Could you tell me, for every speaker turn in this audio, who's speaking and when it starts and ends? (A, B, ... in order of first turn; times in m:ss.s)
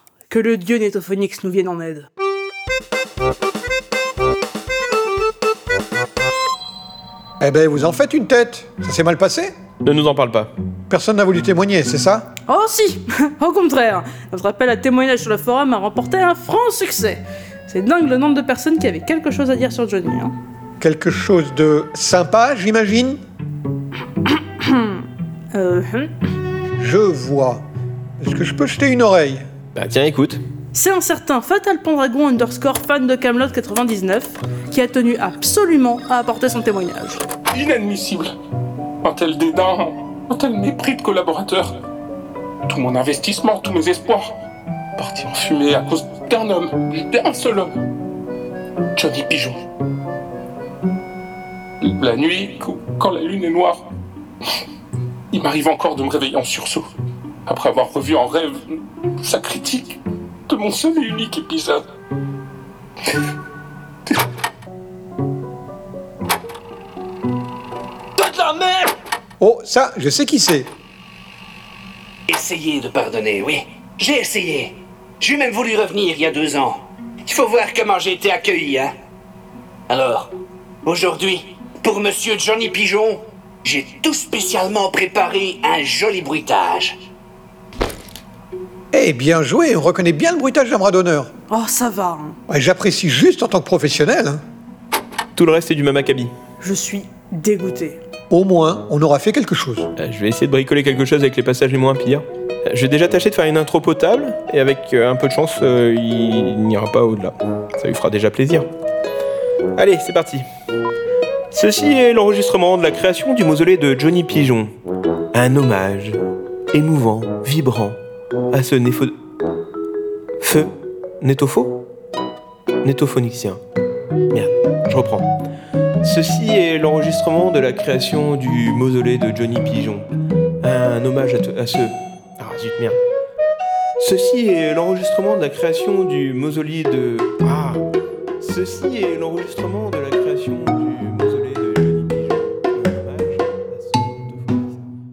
0:00.3-0:02.1 A
0:07.4-0:09.5 B
0:09.8-0:10.5 C
0:10.9-0:12.3 B
0:12.5-0:20.3 A
0:20.8-0:23.2 B
0:24.2-0:26.1 A
0:26.8-0:27.6 B
0:28.2-0:29.4 B
0:29.7-0:30.4 C
0:30.7-0:37.2 A
0:37.5-0:38.3 D
0:39.0-0:41.7 D
0:42.7-0:44.3 D
0:45.0-0:47.8 D
0:49.0-0:49.6 D
0:51.8-0:53.8 D
0:55.3-0:56.9 D
0:57.4-1:01.8 D
1:09.4-1:10.7 B
1:12.3-1:14.7 E
1:15.2-1:16.7 E
1:17.3-1:18.9 E
1:19.9-1:20.3 E
1:20.8-1:26.9 E
1:28.9-1:31.3 B
1:31.5-1:32.4 A
1:32.5-1:34.4 B
1:35.4-1:36.3 C
1:36.6-1:38.0 A
1:38.3-1:39.9 B
1:40.0-1:48.7 C
1:49.8-1:50.4 C
1:51.5-1:54.7 C
1:55.3-1:56.2 C
1:56.7-1:58.0 C
1:58.5-1:59.1 C
2:00.4-2:01.8 C
2:02.8-2:03.6 C
2:04.3-2:05.3 C
2:06.0-2:10.1 C
2:10.6-2:13.0 C
2:14.0-2:17.8 C
2:18.4-2:24.9 C